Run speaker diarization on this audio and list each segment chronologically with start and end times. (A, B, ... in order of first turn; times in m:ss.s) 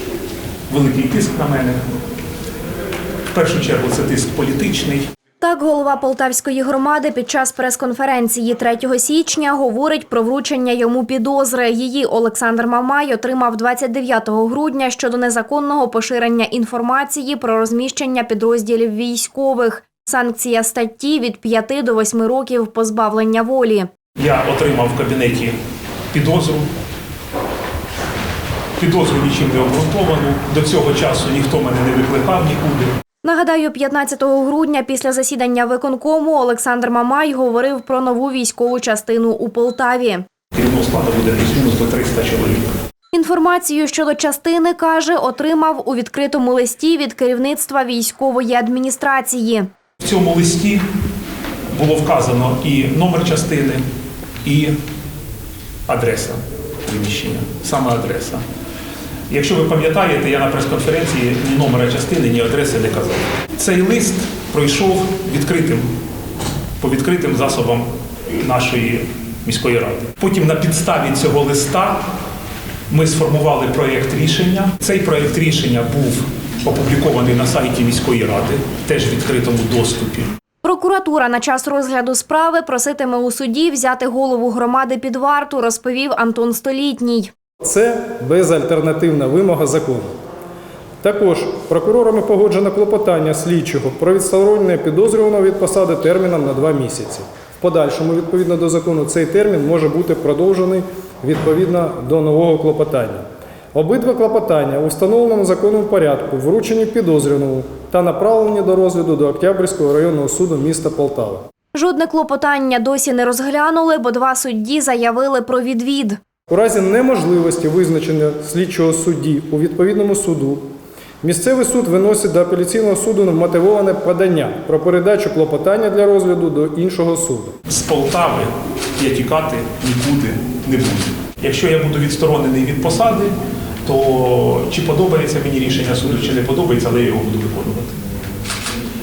0:00.7-0:01.8 A
0:03.3-0:05.0 A
0:05.4-0:23.9 B
0:24.2-0:25.6 A
0:26.1-0:26.7 A
0:28.8-0:32.9 A
0:33.2-0:40.2 B
0:40.5-0:42.7 A
0:43.1-0:49.7 B
0:50.0-0:50.8 A
0:51.7-0:53.8 A
0:54.4-0:54.8 A
0:55.9-0:58.4 A
0:59.3-1:05.9 A
1:06.8-1:12.0 A
1:12.9-1:20.3 A
1:20.6-1:27.3 B
1:27.6-1:30.1 C
1:31.0-1:51.4 C
1:51.7-1:56.2 B
1:56.5-2:00.7 C
2:01.2-2:07.5 C
2:07.7-2:17.9 A